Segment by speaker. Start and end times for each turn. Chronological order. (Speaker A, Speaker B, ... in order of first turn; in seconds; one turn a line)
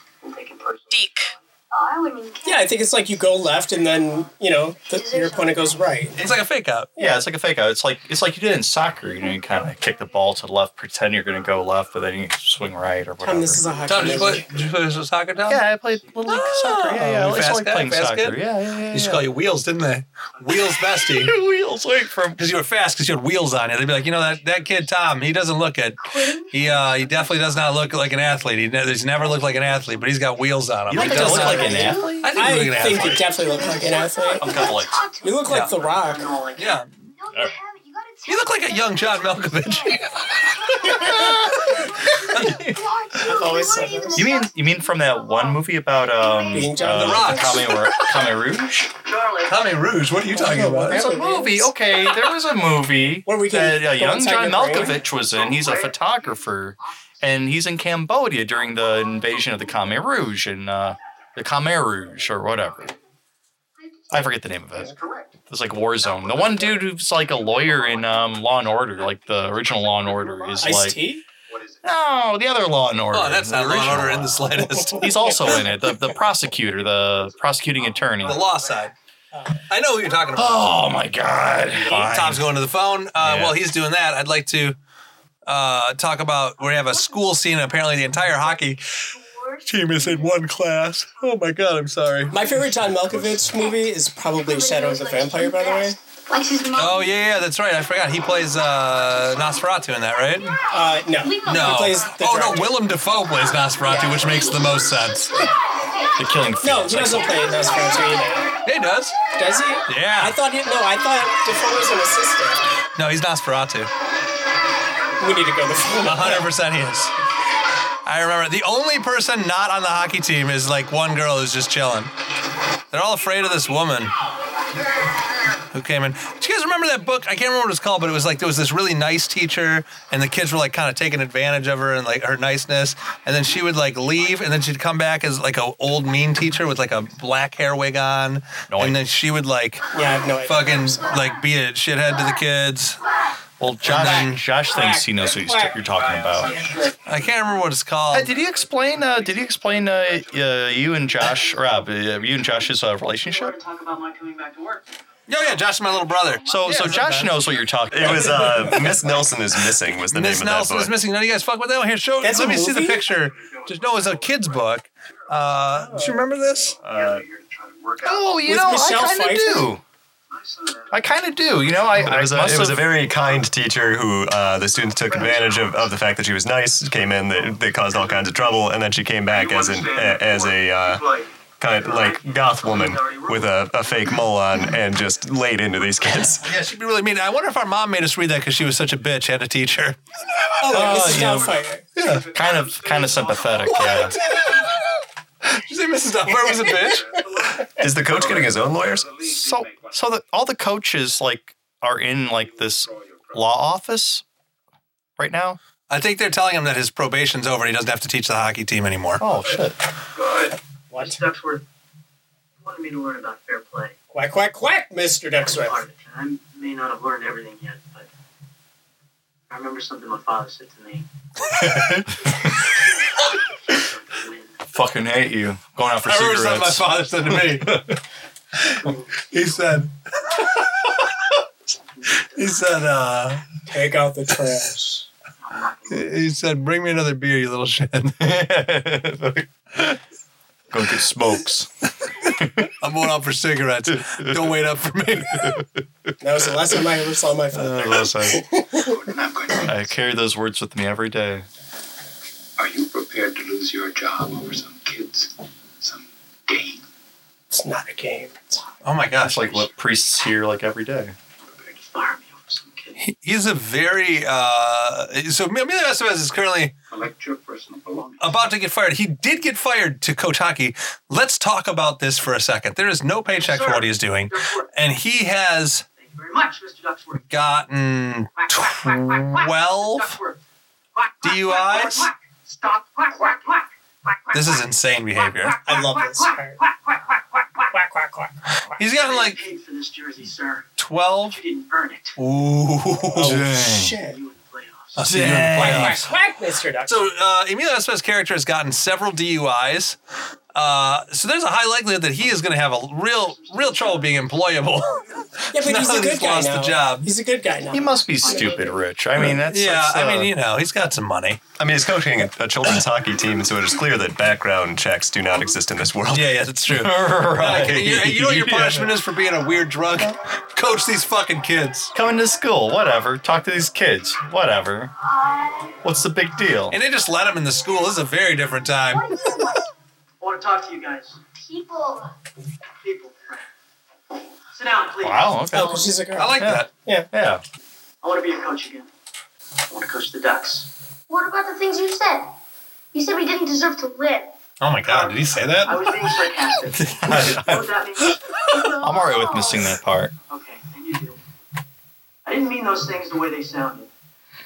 Speaker A: 0.2-1.4
Speaker B: 0.9-6.1
Speaker C: 2.4-6.2
Speaker D: 6.2-6.9
Speaker C: 7.0-7.2
Speaker E: 7.0-13.9
Speaker B: 9.2-10.1
Speaker C: 13.2-14.5
Speaker A: 13.6-16.5
Speaker D: 13.9-15.7
Speaker E: 15.5-19.3
Speaker D: 16.2-18.4
Speaker D: 18.9-21.3
Speaker E: 21.0-22.4
Speaker D: 22.4-33.2
Speaker A: 23.9-25.2
Speaker B: 26.0-27.4
Speaker A: 26.6-31.1
Speaker E: 30.9-32.4
Speaker C: 30.9-36.3
Speaker B: 32.7-35.9
Speaker E: 34.4-35.0
Speaker D: 35.5-35.7
Speaker A: 35.7-36.8
Speaker D: 36.6-37.1
Speaker B: 36.7-48.4
Speaker D: 38.3-40.4
Speaker E: 40.9-41.7
Speaker D: 42.3-42.6
Speaker E: 42.3-42.8
Speaker C: 43.2-44.3
Speaker E: 44.1-48.9
Speaker C: 46.5-47.4
Speaker D: 46.9-47.7
Speaker A: 49.0-49.8
Speaker D: 49.5-51.1
Speaker C: 50.3-51.7
Speaker E: 50.9-62.9
Speaker C: 53.2-55.0
Speaker B: 63.8-64.3
Speaker E: 64.1-65.0
Speaker F: 64.9-65.3
Speaker E: 65.5-71.1
Speaker F: 66.1-66.5
Speaker F: 69.8-70.6
Speaker C: 70.6-71.2
Speaker F: 71.5-71.8
Speaker E: 71.8-78.5
Speaker D: 73.1-75.2
Speaker F: 77.1-78.8
Speaker D: 78.2-78.9
Speaker C: 79.3-79.6
Speaker D: 79.7-80.8
Speaker E: 80.3-82.5
Speaker D: 81.8-84.8
Speaker E: 83.2-83.6
Speaker D: 85.5-88.9
Speaker B: 86.6-91.4
Speaker D: 89.7-92.7
Speaker C: 92.3-96.0
Speaker B: 93.4-97.2
Speaker D: 96.8-100.6
Speaker B: 100.4-102.3
Speaker C: 100.7-102.8
Speaker D: 101.4-105.3
Speaker B: 103.2-106.1
Speaker C: 103.8-104.5
Speaker E: 106.2-107.5
Speaker C: 106.6-108.5
Speaker D: 108.7-109.2
Speaker C: 109.4-112.6
Speaker D: 109.9-110.4
Speaker D: 113.0-113.9
Speaker C: 115.2-116.5
Speaker D: 116.0-117.1
Speaker D: 118.1-122.1
Speaker D: 122.9-124.2
Speaker D: 125.7-139.8
Speaker E: 138.7-139.0
Speaker C: 139.9-141.2
Speaker D: 140.4-143.0
Speaker E: 143.6-146.6
Speaker D: 143.8-144.5
Speaker C: 144.0-145.8
Speaker F: 145.9-146.9
Speaker A: 146.4-146.9
Speaker D: 147.1-148.3
Speaker E: 148.1-153.6
Speaker F: 148.3-151.7
Speaker A: 153.1-154.9
Speaker D: 155.3-157.5
Speaker A: 156.1-157.2
Speaker E: 156.5-158.9
Speaker G: 157.9-161.0
Speaker D: 158.3-158.8
Speaker D: 160.1-166.8
Speaker C: 162.2-163.0
Speaker F: 163.2-165.6
Speaker C: 165.7-166.3
Speaker F: 166.3-168.8
Speaker G: 166.8-167.2
Speaker E: 168.0-169.8
Speaker C: 168.4-169.7
Speaker F: 170.3-170.9
Speaker E: 170.9-173.0
Speaker G: 171.8-181.1
Speaker F: 173.0-173.7
Speaker F: 174.7-175.9
Speaker F: 177.4-178.6
Speaker F: 179.3-181.3
Speaker G: 181.6-186.6
Speaker A: 181.7-183.8
Speaker D: 186.4-190.0
Speaker C: 190.6-191.8
Speaker D: 190.7-191.4
Speaker E: 190.7-191.6
Speaker D: 191.9-192.3
Speaker F: 192.0-194.1
Speaker E: 192.3-194.2
Speaker D: 193.7-194.8
Speaker D: 195.4-197.2
Speaker C: 196.5-197.0
Speaker F: 196.8-200.1
Speaker G: 197.8-199.1
Speaker E: 199.2-204.2
Speaker F: 202.4-203.5
Speaker E: 205.2-205.6
Speaker D: 205.9-209.2
Speaker E: 209.2-209.8
Speaker F: 210.2-210.5
Speaker C: 210.9-211.2
Speaker A: 210.9-211.7
Speaker A: 212.6-214.0
Speaker C: 214.1-215.8
Speaker A: 215.4-218.1
Speaker A: 219.5-221.1
Speaker D: 221.5-222.0
Speaker E: 221.6-222.5
Speaker A: 223.2-224.6
Speaker E: 224.7-228.0
Speaker D: 226.0-227.8
Speaker D: 228.6-230.9
Speaker A: 232.0-232.7
Speaker D: 232.2-233.4
Speaker C: 233.7-235.1
Speaker A: 235.4-236.2
Speaker D: 235.9-238.2
Speaker E: 238.2-240.0
Speaker E: 240.7-241.7
Speaker E: 242.3-242.7
Speaker D: 242.8-245.6
Speaker E: 243.9-244.6
Speaker E: 245.4-245.7
Speaker C: 246.2-249.0
Speaker E: 247.5-248.4
Speaker F: 248.8-250.0
Speaker E: 249.7-251.5
Speaker F: 252.6-256.8
Speaker C: 257.5-258.6
Speaker D: 258.8-259.6
Speaker E: 259.2-261.1
Speaker A: 261.7-263.0
Speaker D: 263.0-266.7
Speaker F: 266.9-268.6
Speaker D: 268.2-275.9
Speaker A: 273.4-274.7
Speaker A: 276.0-277.3
Speaker D: 277.2-280.2
Speaker A: 278.4-280.4
Speaker A: 281.0-283.7
Speaker D: 281.2-282.1
Speaker D: 284.3-285.7
Speaker C: 285.6-286.6
Speaker C: 287.7-288.8
Speaker D: 288.8-289.4
Speaker A: 288.8-290.7
Speaker D: 290.8-291.4
Speaker A: 291.3-292.2
Speaker D: 292.2-293.4
Speaker C: 293.1-294.2
Speaker E: 293.2-294.0
Speaker A: 294.0-295.2
Speaker D: 294.9-296.0
Speaker E: 295.0-296.1
Speaker C: 295.4-297.1
Speaker D: 296.9-300.0
Speaker D: 300.5-307.1
Speaker A: 303.1-304.7
Speaker C: 305.5-308.8
Speaker E: 307.7-310.3
Speaker A: 308.0-308.9
Speaker D: 309.2-311.4
Speaker G: 311.6-316.4
Speaker D: 316.1-321.9
Speaker E: 316.7-319.0
Speaker E: 321.9-324.9
Speaker B: 325.1-325.8
Speaker E: 325.8-326.8
Speaker D: 326.7-329.2
Speaker B: 328.9-329.6
Speaker A: 330.2-331.2
Speaker B: 331.4-332.1
Speaker A: 332.8-333.5
Speaker A: 334.5-335.5
Speaker E: 335.0-337.4
Speaker C: 335.5-337.1
Speaker D: 335.5-336.7
Speaker A: 338.0-338.9
Speaker A: 339.7-340.7
Speaker B: 341.1-342.3
Speaker B: 342.9-344.3
Speaker D: 344.6-346.2
Speaker A: 344.8-348.2
Speaker D: 346.8-347.4
Speaker E: 347.0-347.7
Speaker D: 348.1-348.6
Speaker B: 348.5-349.7
Speaker E: 348.7-350.1
Speaker A: 350.3-351.2
Speaker A: 352.2-353.9